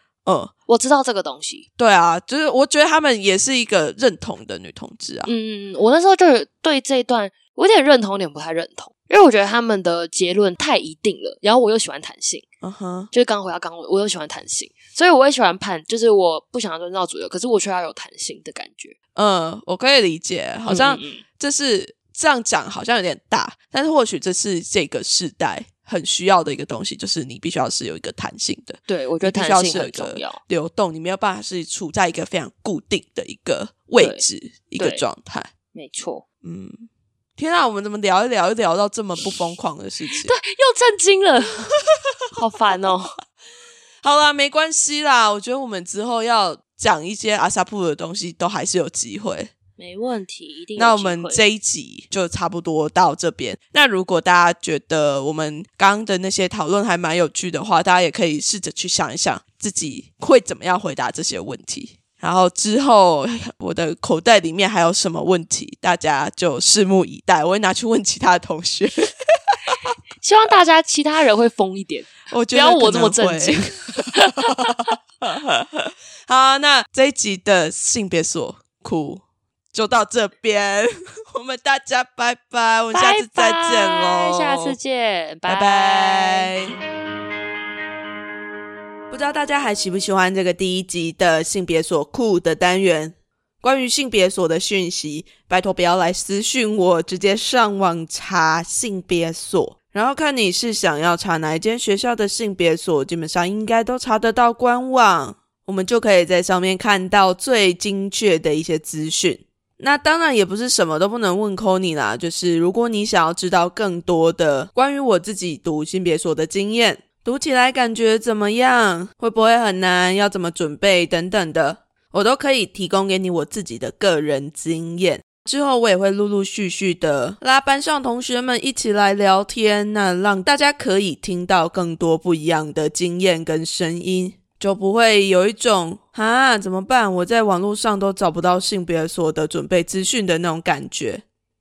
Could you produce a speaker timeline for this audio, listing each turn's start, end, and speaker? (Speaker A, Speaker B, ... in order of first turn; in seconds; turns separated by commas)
Speaker A: 0.2-0.5, Speaker B: 0.7-1.7, Speaker A: 1.8-5.3, Speaker B: 5.2-12.4, Speaker A: 12.6-13.1, Speaker B: 13.1-18.9, Speaker A: 19.1-35.5, Speaker B: 20.7-21.2, Speaker B: 28.9-30.4, Speaker B: 34.0-34.2, Speaker B: 34.8-35.0, Speaker B: 35.7-36.2, Speaker A: 36.4-40.4, Speaker B: 40.1-41.7, Speaker B: 42.3-43.1, Speaker A: 44.0-49.5, Speaker B: 49.8-51.4, Speaker A: 50.8-69.7, Speaker B: 70.2-74.9, Speaker A: 72.3-84.8, Speaker B: 82.9-86.5, Speaker A: 85.5-86.8, Speaker A: 89.1-141.2